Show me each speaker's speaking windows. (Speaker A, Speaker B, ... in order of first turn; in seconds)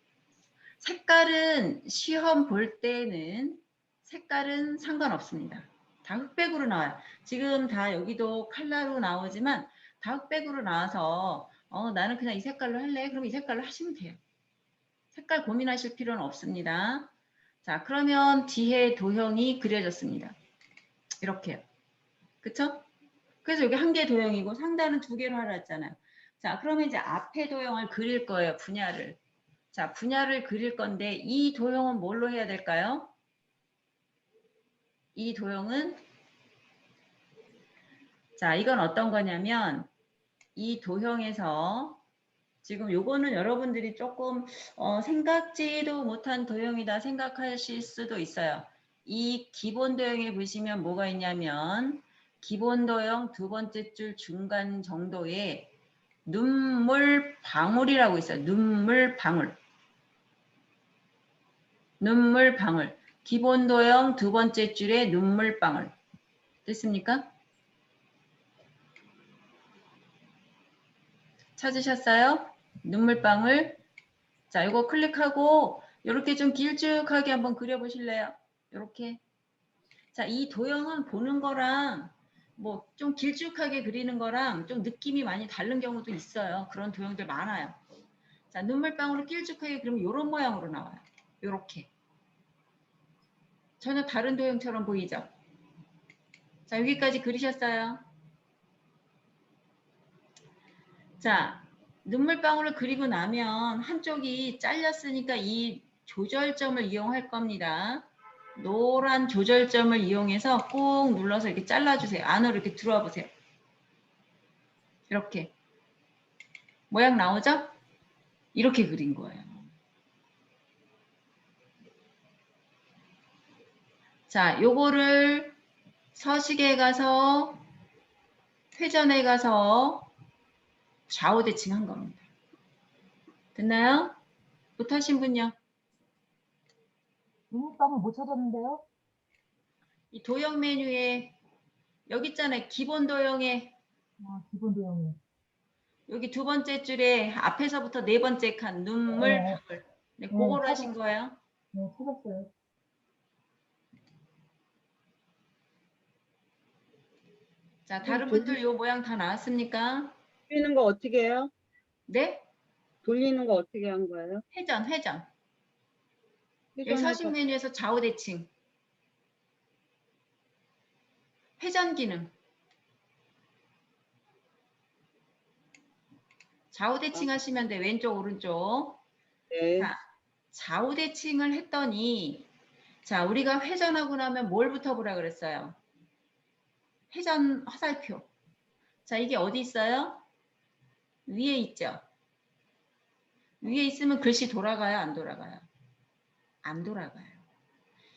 Speaker A: 0.8-14.2, 15.1-17.1, 17.6-20.4, 21.2-21.6, 22.4-22.9, 23.4-29.2, 29.7-33.1, 35.1-36.0, 38.4-39.9, 40.6-42.0, 42.6-55.7, 56.2-59.6, 62.0-65.9, 66.7-67.3, 71.6-73.8, 74.5-79.2, 80.1-87.8, 88.5-91.9, 93.8-95.3, 96.7-98.1, 101.2-113.3, 115.1-115.5, 116.9-117.7, 118.5-119.7, 124.3-125.6, 126.1-127.7, 128.8-130.1, 131.1-132.3, 133.6-134.2, 134.8-135.6, 140.1-141.4, 142.1-143.8, 146.1-151.4, 157.9-160.2, 162.1-162.5, 164.5-165.3, 166.9-168.5, 171.6-172.3, 176.7-179.0, 179.8-182.5, 183.0-185.8, 187.1-188.3, 189.1-190.2, 191.3-192.0, 193.6-195.7, 196.6-197.4
Speaker B: 137.5-138.9, 144.2-145.2, 149.1-149.6, 150.3-150.9, 151.7-152.5
Speaker C: 158.0-158.6, 160.5-161.5, 163.1-164.4, 166.8-167.3, 179.5-179.9